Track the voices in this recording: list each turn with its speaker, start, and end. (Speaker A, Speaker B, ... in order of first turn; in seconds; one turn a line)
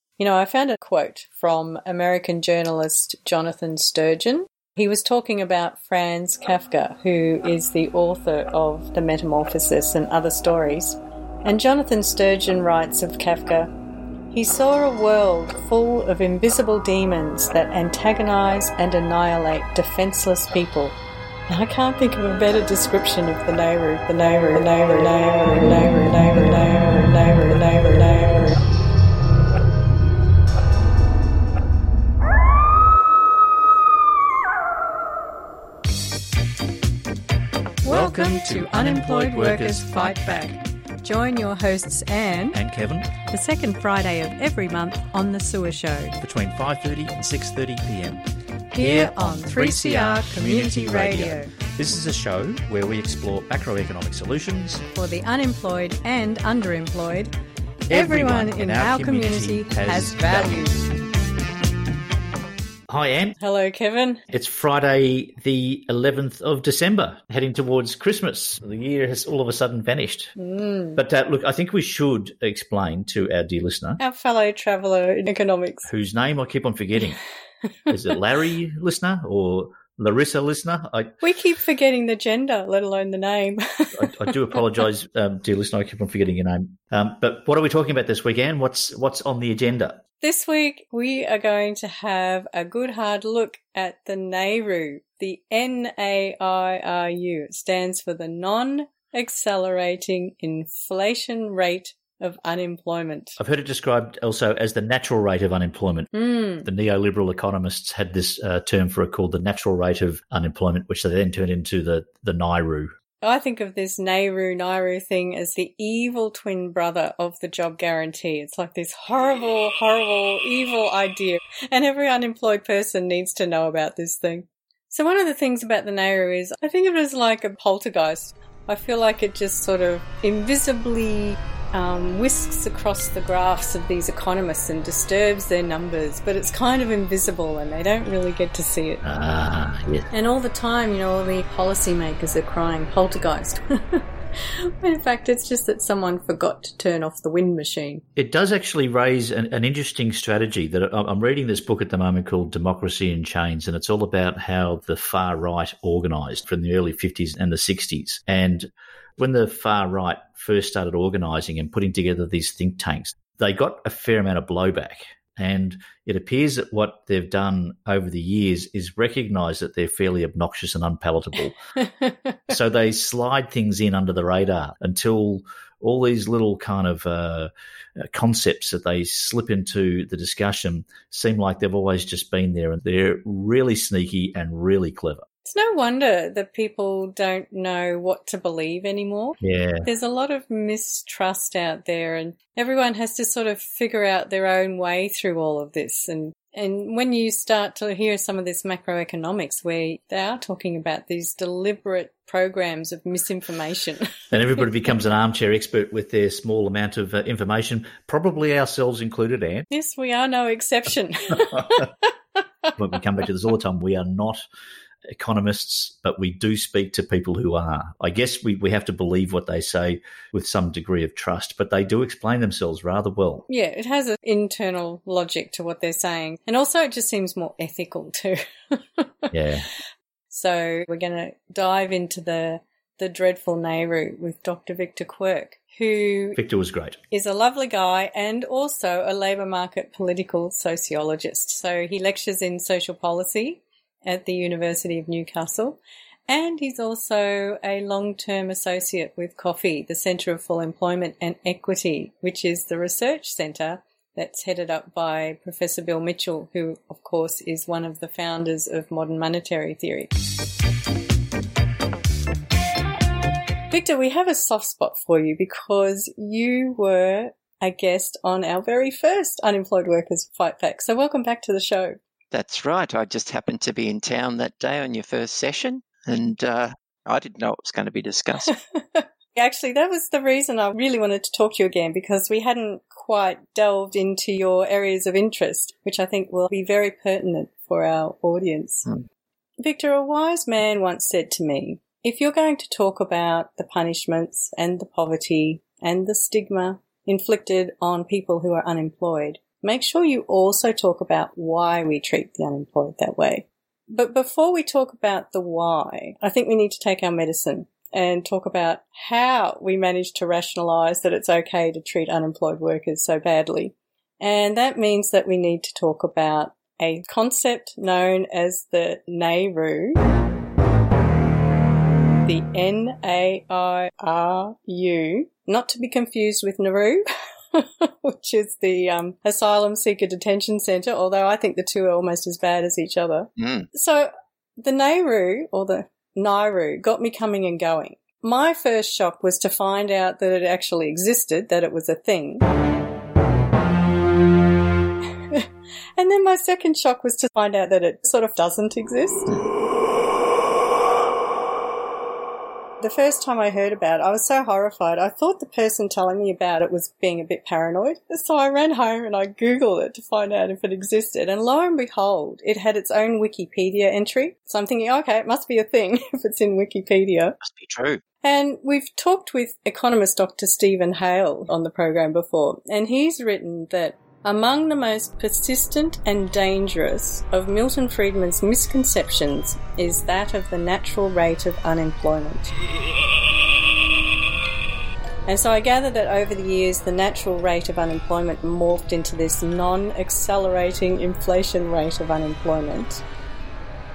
Speaker A: 0.2-13.7
Speaker A: 14.3-20.9
Speaker A: 21.5-28.6
Speaker B: 37.8-40.6
Speaker A: 37.8-42.6
Speaker B: 42.5-43.1
Speaker A: 43.3-46.2
Speaker B: 46.2-54.8
Speaker A: 48.7-51.5
Speaker A: 54.9-57.3
Speaker B: 57.9-60.7
Speaker A: 57.9-60.8
Speaker B: 62.9-63.4
Speaker A: 63.4-64.2
Speaker B: 64.3-70.3
Speaker A: 70.4-71.0
Speaker B: 71.0-74.0
Speaker A: 74.0-75.9
Speaker B: 75.9-77.2
Speaker B: 77.9-81.1
Speaker A: 81.2-84.6
Speaker B: 83.9-90.0
Speaker A: 90.2-103.4
Speaker B: 103.4-106.1
Speaker A: 106.1-106.7
Speaker B: 106.6-112.9
Speaker A: 113.2-139.0
Speaker B: 139.0-140.1
Speaker A: 140.1-148.0
Speaker B: 148.2-171.6
Speaker A: 171.8-172.5
Speaker B: 172.5-185.2
Speaker A: 185.4-204.2
Speaker B: 189.4-189.9
Speaker B: 204.3-209.7
Speaker A: 209.7-212.1
Speaker B: 212.8-214.4
Speaker B: 215.1-223.4
Speaker A: 223.5-229.3
Speaker B: 229.3-229.7
Speaker A: 230.3-236.4
Speaker B: 236.3-237.0
Speaker A: 237.1-260.1
Speaker A: 263.7-272.0
Speaker C: 272.3-278.5
Speaker A: 278.7-288.9
Speaker A: 289.6-320.0
Speaker A: 322.2-342.4
Speaker C: 333.4-333.7
Speaker A: 345.3-349.3
Speaker A: 352.8-367.4
Speaker C: 367.4-368.0
Speaker A: 368.2-382.5
Speaker A: 385.3-393.0